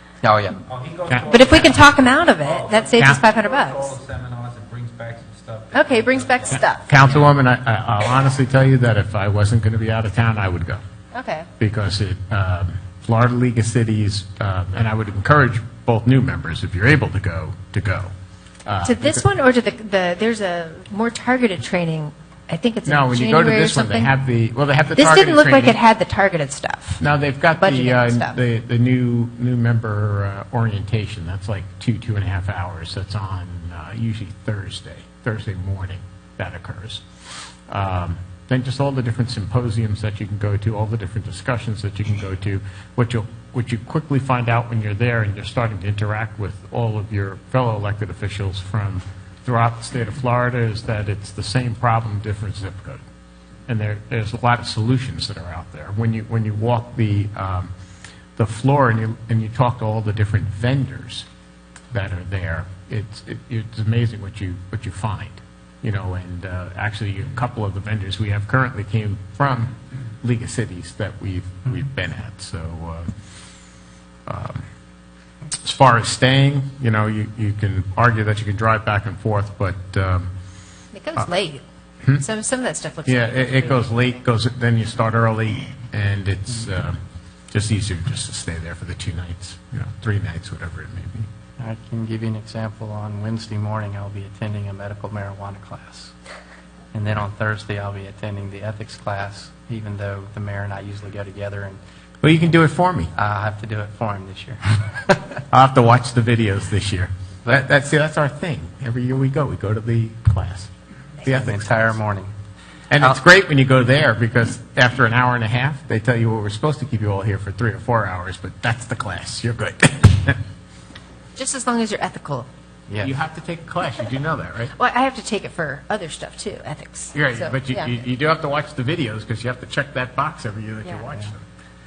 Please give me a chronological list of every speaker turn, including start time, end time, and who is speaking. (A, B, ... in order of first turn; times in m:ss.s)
0:00.2-0:00.6 A
0:00.6-0:07.4 B
0:01.2-0:04.0 C
0:05.7-0:06.9 C
0:06.5-0:10.8 D
0:11.1-0:11.5 C
0:11.6-0:18.1 D
0:18.6-0:19.2 D
0:18.8-0:24.1 C
0:22.8-0:25.8 D
0:24.9-0:27.0 C
0:27.0-0:37.0 D
0:27.6-0:28.4 C
0:37.7-0:53.0 D
0:53.7-0:57.7 D
0:58.4-1:01.3 D
1:01.9-1:13.1 D
1:14.3-1:14.6 D
1:15.6-1:20.3 D
1:20.9-1:24.2 C
1:23.0-1:27.0 D
1:27.5-1:31.3 D
1:31.6-1:36.1 A
1:36.9-1:41.8 A
1:42.2-1:43.1 D
1:43.1-1:45.2 A
1:45.5-1:50.7 D
1:51.2-1:52.0 D
1:51.3-1:52.3 A
1:52.9-2:00.4 D
2:01.4-2:02.5 C
2:02.9-2:03.1 A
2:03.0-2:04.7 D
2:04.8-2:08.0 C
2:07.1-2:11.4 D